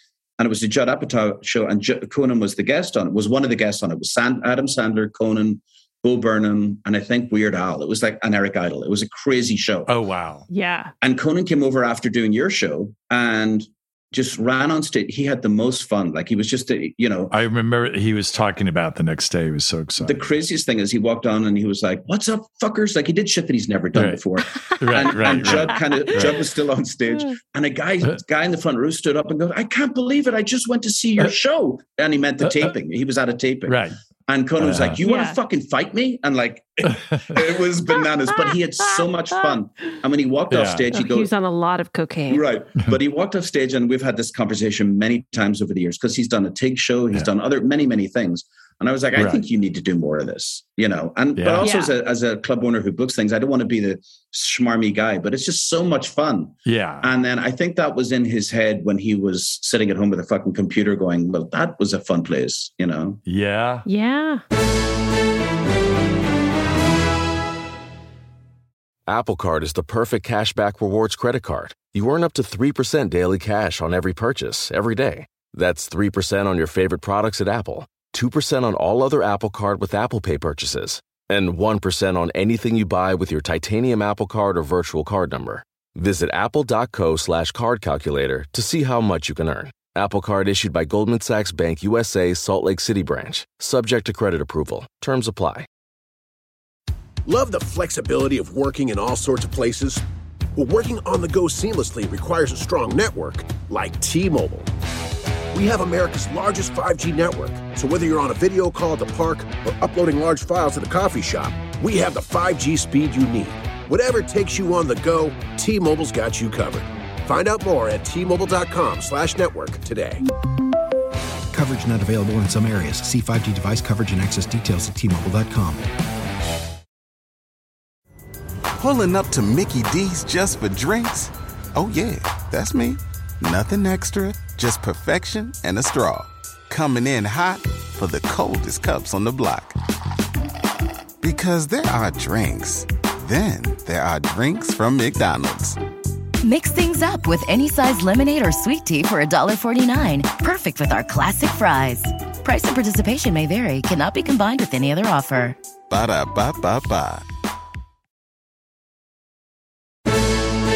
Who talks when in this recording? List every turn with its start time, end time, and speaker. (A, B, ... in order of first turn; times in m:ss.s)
0:00.4-0:09.9 A
0:09.9-0:10.5 B
0:10.5-0:10.9 C
0:11.0-0:17.3 A
0:17.3-0:20.2 B
0:20.0-0:41.3 A
0:24.0-0:24.2 B
0:24.8-0:26.4 B
0:25.4-0:26.1 C
0:32.4-0:32.7 B
0:33.7-0:34.0 B
0:34.6-0:35.0 B
0:35.0-0:35.4 C
0:36.8-0:37.4 B
0:40.5-0:40.9 B
0:40.9-0:42.4 C
0:42.3-1:03.2 A
0:49.2-0:49.4 B
0:51.4-0:51.7 B
0:51.6-0:51.9 C
0:56.7-0:57.1 B
1:03.3-1:03.9 B
1:03.9-1:04.4 C
1:09.1-1:35.7 D
1:37.3-1:40.0 E
1:40.6-1:44.7 E
1:45.5-2:00.2 E
2:01.5-2:05.9 F
2:08.8-2:19.8 G
2:21.2-2:25.8 G
2:26.4-2:35.6 H
2:35.9-2:37.2 G